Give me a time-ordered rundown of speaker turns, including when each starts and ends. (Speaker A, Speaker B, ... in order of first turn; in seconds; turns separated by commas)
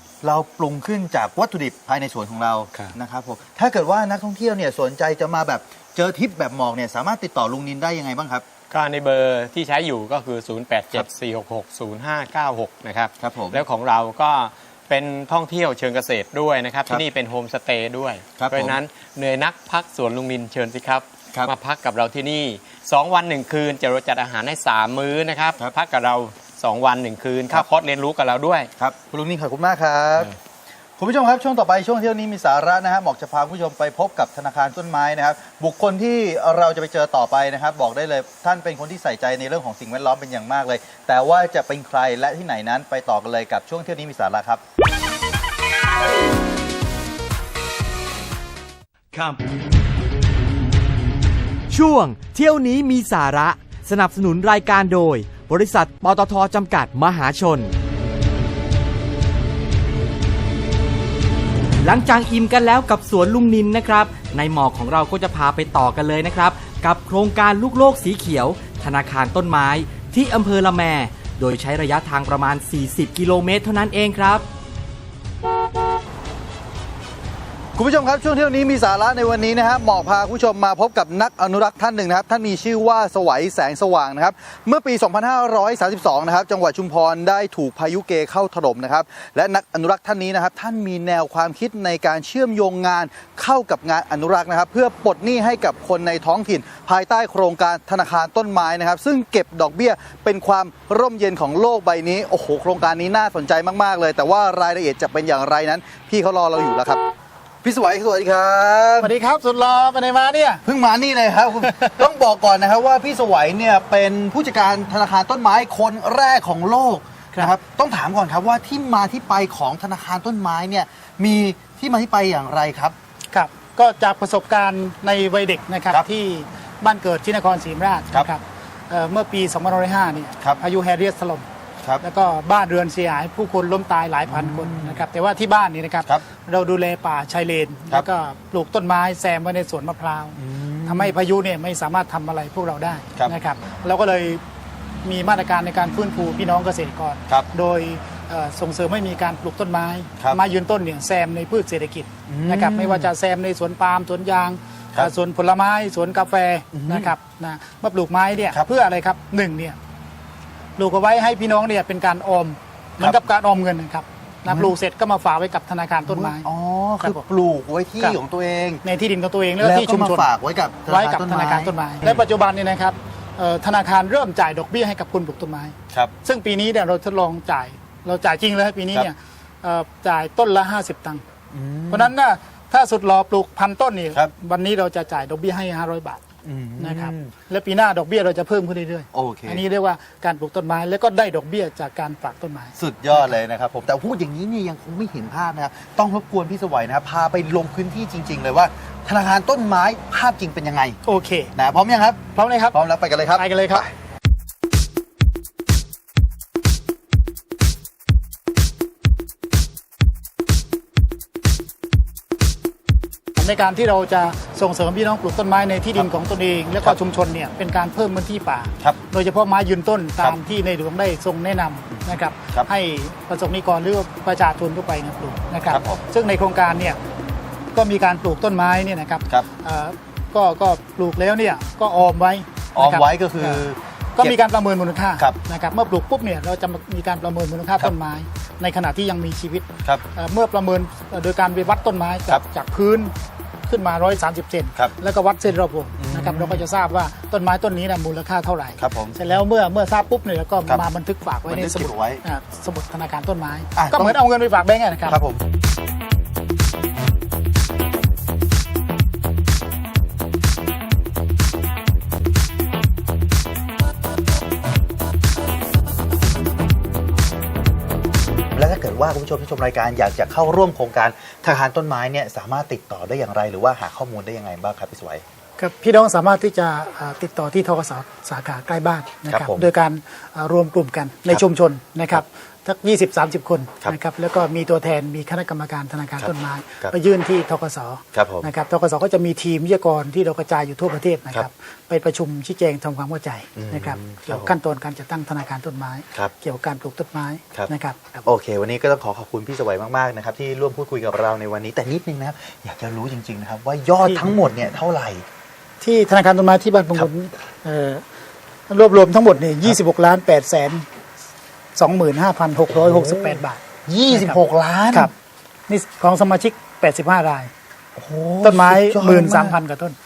Speaker A: 0.2-8.4, Speaker B: 8.7-28.7, Speaker A: 13.2-13.6, Speaker A: 18.4-18.8, Speaker A: 28.8-30.3, Speaker A: 31.0-44.6, Speaker C: 51.7-57.7, Speaker C: 61.8-74.5, Speaker A: 77.8-107.0, Speaker A: 107.6-109.1, Speaker D: 109.0-110.6, Speaker A: 110.7-123.0, Speaker D: 111.7-112.0, Speaker D: 123.3-131.5, Speaker D: 132.0-144.4, Speaker A: 134.3-135.1, Speaker A: 140.4-141.2, Speaker D: 145.0-159.8, Speaker A: 152.3-153.1, Speaker A: 156.7-157.2, Speaker D: 160.8-166.5, Speaker A: 163.0-163.2, Speaker A: 164.5-164.8, Speaker A: 166.1-168.8, Speaker D: 168.8-170.3, Speaker A: 169.6-172.2, Speaker D: 170.8-181.2, Speaker A: 181.5-182.1, Speaker D: 181.9-186.2, Speaker A: 186.4-187.3, Speaker D: 186.8-193.4, Speaker A: 189.1-189.6, Speaker A: 192.8-201.0, Speaker D: 201.1-201.5, Speaker A: 201.6-203.9, Speaker D: 202.3-202.8, Speaker D: 203.3-203.8, Speaker D: 213.4-227.0, Speaker A: 221.9-222.7, Speaker A: 225.7-226.0, Speaker D: 227.7-243.1, Speaker A: 232.8-234.4, Speaker D: 243.7-255.2, Speaker A: 246.0-246.7, Speaker A: 248.8-249.2, Speaker A: 251.5-252.2, Speaker A: 253.8-254.2, Speaker A: 255.1-255.4, Speaker A: 268.5-275.2, Speaker D: 275.6-298.3, Speaker A: 279.3-279.7, Speaker A: 286.2-286.9, Speaker A: 288.1-288.5, Speaker A: 293.6-294.5, Speaker A: 298.2-305.2, Speaker D: 304.0-304.4, Speaker D: 305.8-308.0, Speaker D: 308.7-310.9, Speaker D: 311.8-314.4, Speaker A: 312.7-315.1, Speaker D: 315.7-317.5, Speaker A: 318.0-319.6, Speaker D: 318.4-319.9